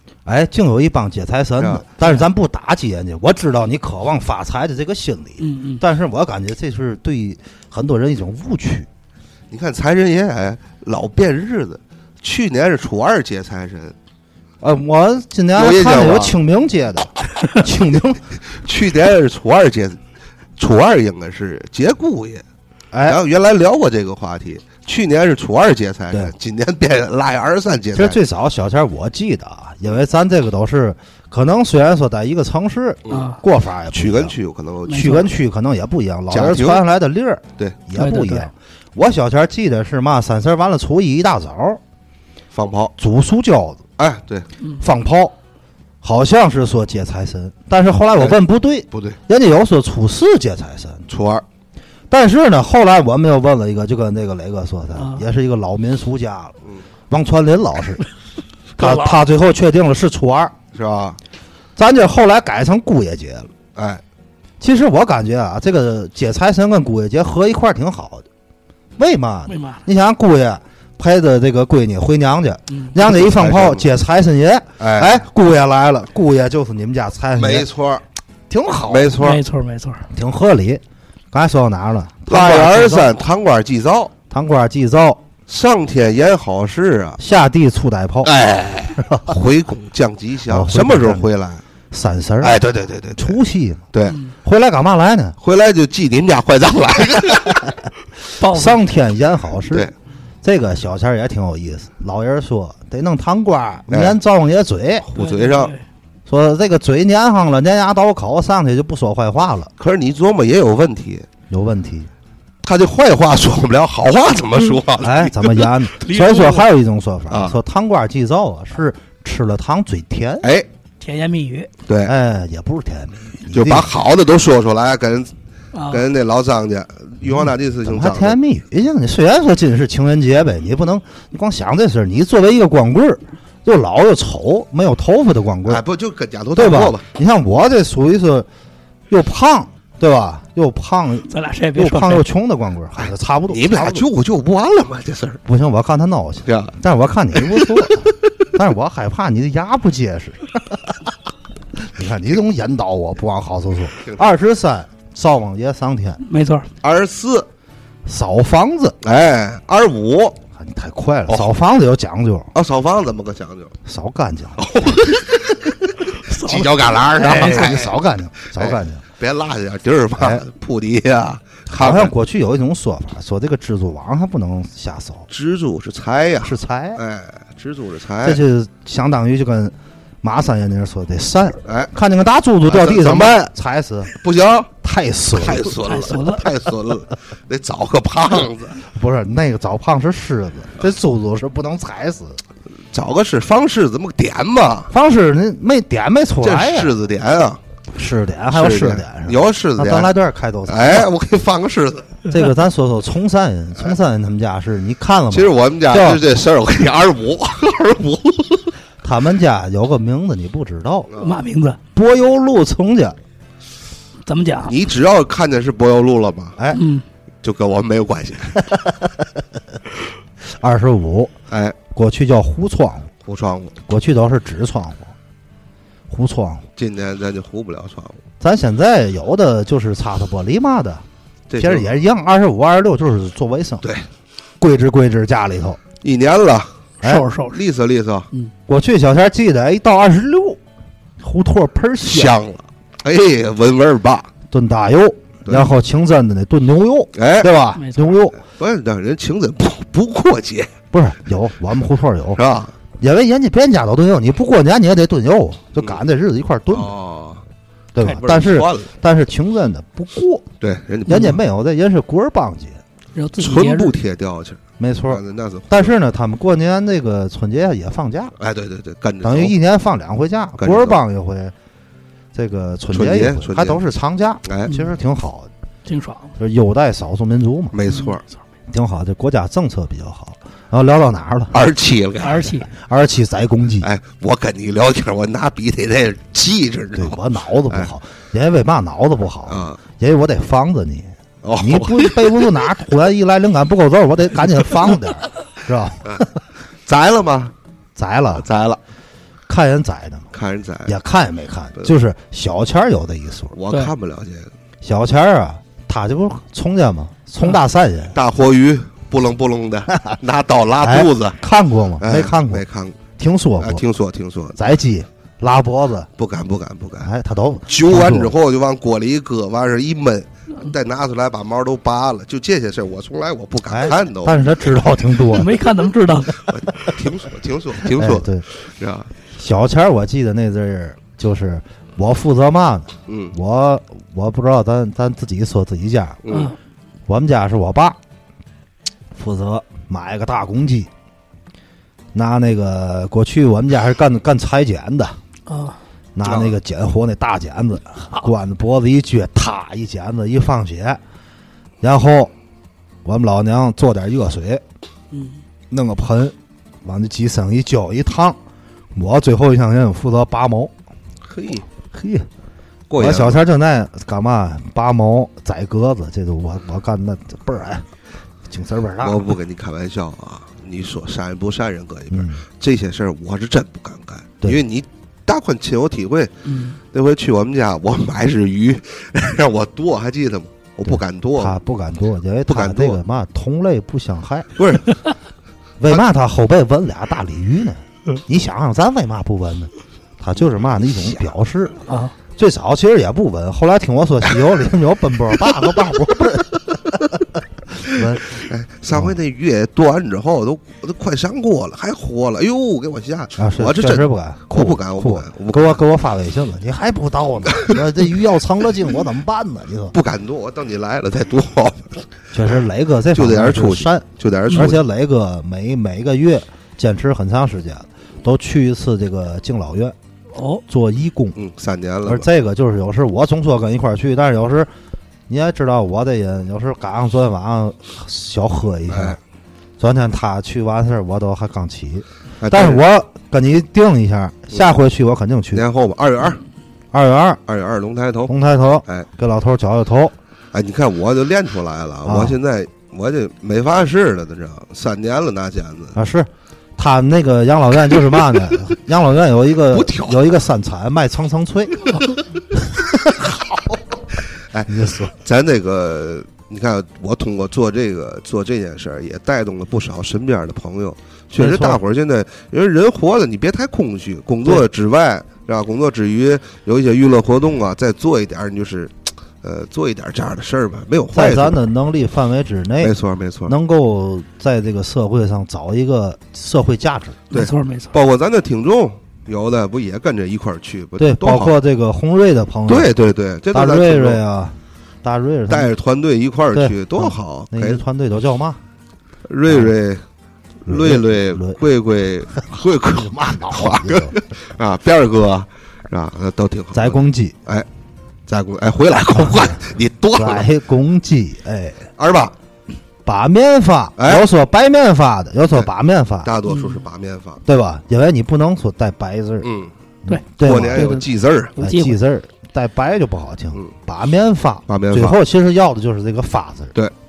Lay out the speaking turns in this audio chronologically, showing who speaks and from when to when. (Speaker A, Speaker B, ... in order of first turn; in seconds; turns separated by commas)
Speaker A: 0.2-8.9, Speaker B: 1.6-1.8, Speaker C: 5.4-5.8, Speaker B: 9.5-13.9, Speaker A: 14.6-18.3, Speaker B: 15.5-16.4, Speaker B: 18.5-20.0, Speaker B: 20.6-22.4, Speaker A: 22.9-23.2, Speaker B: 23.1-28.2, Speaker A: 27.9-34.4, Speaker C: 33.1-33.4, Speaker B: 33.9-35.1, Speaker C: 34.9-35.3, Speaker A: 34.9-41.8, Speaker B: 36.3-36.8, Speaker C: 38.0-38.5, Speaker B: 42.5-42.9, Speaker A: 43.0-43.9, Speaker B: 44.0-44.5, Speaker A: 44.8-45.4, Speaker A: 46.0-51.1, Speaker B: 48.9-49.2, Speaker B: 51.1-51.4, Speaker A: 52.1-56.5, Speaker C: 55.0-55.2, Speaker A: 57.1-58.0, Speaker C: 58.8-59.2, Speaker A: 58.8-60.5, Speaker B: 60.7-61.2, Speaker A: 61.8-63.5, Speaker B: 63.8-64.0, Speaker A: 64.6-68.2, Speaker A: 69.0-77.7, Speaker C: 69.5-69.8, Speaker B: 73.0-73.9, Speaker B: 74.8-75.2, Speaker B: 77.4-78.0, Speaker A: 78.5-79.2, Speaker B: 78.9-79.4, Speaker C: 79.2-80.1, Speaker A: 80.1-80.8, Speaker A: 81.3-83.2, Speaker B: 82.3-84.1, Speaker A: 84.3-85.2, Speaker B: 85.5-87.2, Speaker A: 87.2-88.3, Speaker B: 88.2-91.6, Speaker A: 89.0-89.3, Speaker A: 90.5-91.3, Speaker A: 91.9-92.6, Speaker B: 92.4-93.4, Speaker A: 93.2-93.9, Speaker B: 93.9-94.2, Speaker A: 94.4-95.4, Speaker B: 95.4-97.7, Speaker C: 98.4-98.8, Speaker A: 98.4-99.9, Speaker A: 100.4-105.1, Speaker B: 103.9-104.2, Speaker B: 105.0-105.7, Speaker C: 105.2-105.8, Speaker A: 106.3-109.7, Speaker B: 109.8-111.3, Speaker A: 111.5-112.1, Speaker B: 112.6-115.7, Speaker A: 115.0-120.5, Speaker C: 116.0-116.7, Speaker B: 117.3-117.6, Speaker B: 120.4-120.7, Speaker C: 121.0-121.7, Speaker B: 121.9-122.1, Speaker A: 122.0-123.9, Speaker B: 123.5-125.3, Speaker C: 125.7-126.1, Speaker B: 125.9-128.4, Speaker A: 127.8-135.8, Speaker B: 135.7-137.0, Speaker A: 136.5-138.5, Speaker A: 139.1-144.1, Speaker C: 141.3-142.2, Speaker B: 143.0-145.4, Speaker A: 145.4-150.8, Speaker B: 146.4-146.8, Speaker B: 147.3-148.1, Speaker A: 151.8-156.2, Speaker C: 156.2-156.7, Speaker B: 156.8-157.5, Speaker A: 158.1-159.0, Speaker B: 159.0-160.4, Speaker A: 160.5-162.5, Speaker B: 162.5-163.7, Speaker A: 163.8-164.6, Speaker B: 164.6-167.9, Speaker C: 166.2-167.7, Speaker A: 167.1-169.0, Speaker B: 168.5-172.1, Speaker A: 170.2-170.4, Speaker A: 171.7-175.3, Speaker B: 175.3-178.4, Speaker A: 176.4-177.0, Speaker A: 178.2-184.1, Speaker B: 181.6-181.9, Speaker B: 182.7-183.5, Speaker B: 184.1-184.7, Speaker A: 184.8-185.8, Speaker B: 185.3-188.8, Speaker C: 185.8-186.5, Speaker A: 188.9-192.4, Speaker B: 192.9-194.9, Speaker A: 194.9-196.9, Speaker B: 196.4-197.6, Speaker A: 197.9-201.1, Speaker B: 198.5-200.1, Speaker B: 200.7-202.2, Speaker A: 202.3-206.2, Speaker B: 205.3-208.7, Speaker A: 209.0-211.1, Speaker B: 211.1-211.4, Speaker C: 211.2-211.8, Speaker A: 211.9-213.2, Speaker C: 214.2-214.7, Speaker B: 214.6-216.6, Speaker C: 216.7-217.0, Speaker B: 217.4-218.6, Speaker A: 218.7-219.1, Speaker A: 220.6-221.3, Speaker B: 221.5-221.8, Speaker A: 221.9-223.1, Speaker B: 223.2-223.8, Speaker A: 223.9-225.1, Speaker A: 226.1-226.7, Speaker B: 226.8-228.2, Speaker A: 228.4-231.0, Speaker B: 231.5-231.9, Speaker A: 231.6-233.9, Speaker B: 233.8-234.1, Speaker A: 234.6-235.8, Speaker B: 236.0-236.7, Speaker C: 237.0-237.6, Speaker B: 237.4-238.3, Speaker A: 238.7-240.6, Speaker A: 241.2-242.4, Speaker B: 242.0-244.3, Speaker A: 244.5-248.4, Speaker B: 245.4-245.7, Speaker B: 247.1-247.5, Speaker C: 247.7-248.2, Speaker B: 248.4-250.7, Speaker A: 250.9-252.4, Speaker B: 252.4-252.7, Speaker A: 253.0-256.9, Speaker B: 256.7-257.4, Speaker A: 257.9-260.4, Speaker B: 258.1-258.9, Speaker B: 260.6-261.4, Speaker A: 261.1-262.8, Speaker C: 261.1-261.4, Speaker C: 263.1-264.0, Speaker B: 263.4-265.9, Speaker A: 264.8-268.3, Speaker B: 268.4-269.6, Speaker A: 269.2-271.5, Speaker B: 270.6-271.0, Speaker A: 272.3-275.5, Speaker B: 272.9-273.8, Speaker B: 274.4-274.7, Speaker C: 275.9-276.3, Speaker A: 276.4-277.8, Speaker B: 277.7-278.2, Speaker C: 277.9-278.2, Speaker A: 278.7-281.6, Speaker B: 281.5-282.6, Speaker C: 282.2-282.7, Speaker A: 282.8-283.9, Speaker B: 283.8-287.9, Speaker A: 286.9-296.3, Speaker B: 289.5-289.8, Speaker B: 291.4-292.6, Speaker B: 296.9-297.5, Speaker A: 297.9-298.4, Speaker B: 298.3-298.8, Speaker A: 299.5-300.3, Speaker B: 300.3-300.9, Speaker A: 300.9-303.6, Speaker B: 303.5-304.5, Speaker A: 304.8-308.1, Speaker B: 308.1-311.4, Speaker A: 310.8-312.6, Speaker B: 312.0-313.0, Speaker A: 313.1-313.8, Speaker B: 313.6-314.6, Speaker A: 314.6-316.1, Speaker B: 316.2-317.1, Speaker A: 317.0-318.3, Speaker B: 317.7-324.4, Speaker A: 323.7-325.6, Speaker C: 325.3-326.4, Speaker B: 326.5-329.1, Speaker A: 327.9-328.4, Speaker A: 329.3-336.2, Speaker B: 333.1-333.3, Speaker B: 336.2-336.5, Speaker C: 336.3-336.6, Speaker A: 337.1-338.0, Speaker A: 339.1-340.9, Speaker A: 342.1-345.2, Speaker C: 345.5-345.8, Speaker A: 346.1-351.0, Speaker B: 346.2-346.6, Speaker A: 351.8-352.3, Speaker A: 353.1-354.6, Speaker C: 355.1-355.4, Speaker A: 355.7-358.4, Speaker A: 358.9-360.7, Speaker B: 361.2-361.6, Speaker A: 361.9-362.3, Speaker B: 362.9-363.4, Speaker A: 363.0-367.9, Speaker A: 368.5-369.3, Speaker B: 369.0-376.3, Speaker A: 372.1-372.4, Speaker C: 376.4-376.8, Speaker B: 376.9-381.6, Speaker A: 380.9-384.5, Speaker B: 382.5-383.0, Speaker B: 384.6-385.0, Speaker A: 385.8-391.8, Speaker C: 391.9-392.1, Speaker A: 392.4-397.2, Speaker A: 397.8-399.1, Speaker B: 398.3-405.8, Speaker A: 403.4-409.9, Speaker B: 407.5-407.8, Speaker B: 409.9-412.1, Speaker A: 412.3-419.9, Speaker B: 413.1-414.8, Speaker C: 420.3-420.6, Speaker A: 420.7-421.4, Speaker B: 421.4-422.3, Speaker A: 422.1-424.7, Speaker A: 425.3-429.2, Speaker B: 428.9-429.2, Speaker A: 429.8-435.6, Speaker B: 432.4-432.8, Speaker B: 435.5-436.4, Speaker A: 436.9-437.4, Speaker B: 437.5-438.3, Speaker A: 438.3-440.1, Speaker B: 440.5-446.0, Speaker A: 442.1-442.4, Speaker A: 445.9-451.9, Speaker B: 449.7-450.2, Speaker A: 452.9-453.4, Speaker B: 454.5-471.6, Speaker A: 454.7-455.1, Speaker A: 461.4-461.8, Speaker A: 471.1-472.9, Speaker B: 472.8-473.5, Speaker A: 473.4-477.2, Speaker C: 477.3-477.9, Speaker B: 477.3-481.6, Speaker A: 481.0-482.9, Speaker B: 482.7-484.2, Speaker A: 483.5-485.7, Speaker B: 485.5-487.8, Speaker A: 486.5-488.6, Speaker B: 489.3-490.0, Speaker A: 490.6-491.6, Speaker B: 490.6-497.7, Speaker A: 492.4-494.2, Speaker A: 496.7-497.4, Speaker B: 498.3-500.5, Speaker A: 500.1-501.9, Speaker B: 502.0-502.4, Speaker A: 503.1-506.3, Speaker B: 504.0-504.3, Speaker B: 506.2-507.4, Speaker C: 506.4-506.8, Speaker A: 507.4-509.5, Speaker B: 509.4-509.7, Speaker A: 510.1-510.9, Speaker C: 510.1-512.0, Speaker B: 510.4-511.6, Speaker A: 511.6-516.7, Speaker B: 514.7-515.2